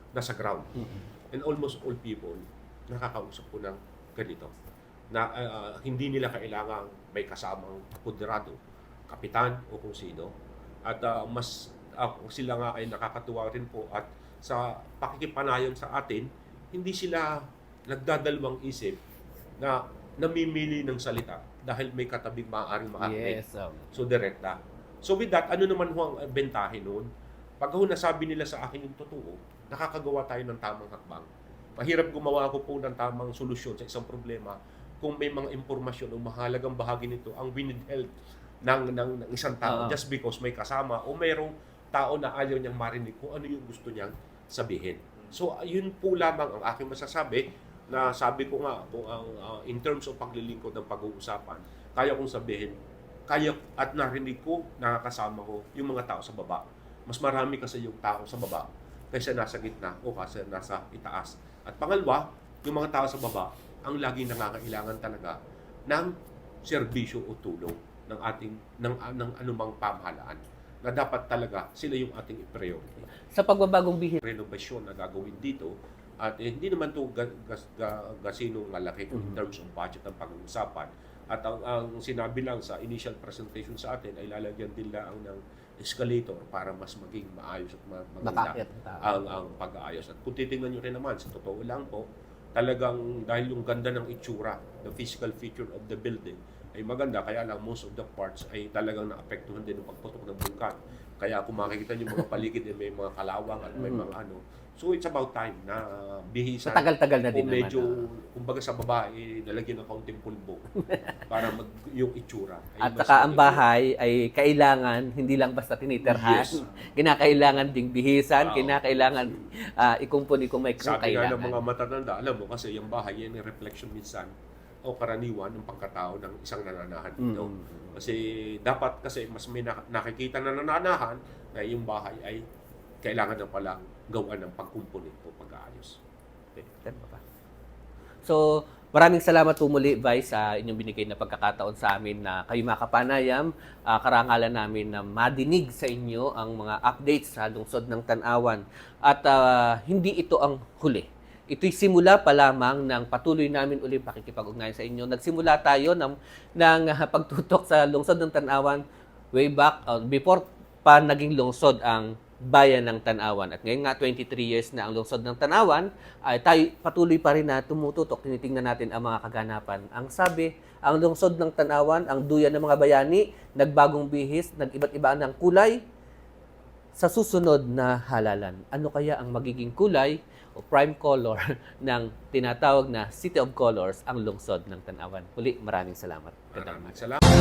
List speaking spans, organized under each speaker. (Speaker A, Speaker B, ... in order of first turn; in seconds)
Speaker A: 0.1-0.7, 1.3-4.5, 5.1-8.6, 9.1-10.3, 10.9-17.4, 17.9-19.0, 19.6-23.4, 23.9-27.1, 27.6-38.1, 38.6-52.7, 53.3-65.4, 66.7-73.1, 74.2-110.6, 111.3-113.6, 116.0-116.6, 118.4-119.4, 120.8-124.3, 124.9-132.4, 133.0-136.0, 186.5-187.2
Speaker B: 0.7-1.1, 23.0-23.9, 39.6-40.0, 73.3-74.2, 88.2-89.1, 103.8-104.1, 106.6-108.0, 110.8-111.2, 112.8-121.6, 127.2-128.0, 136.6-137.2, 138.2-175.8, 176.9-187.0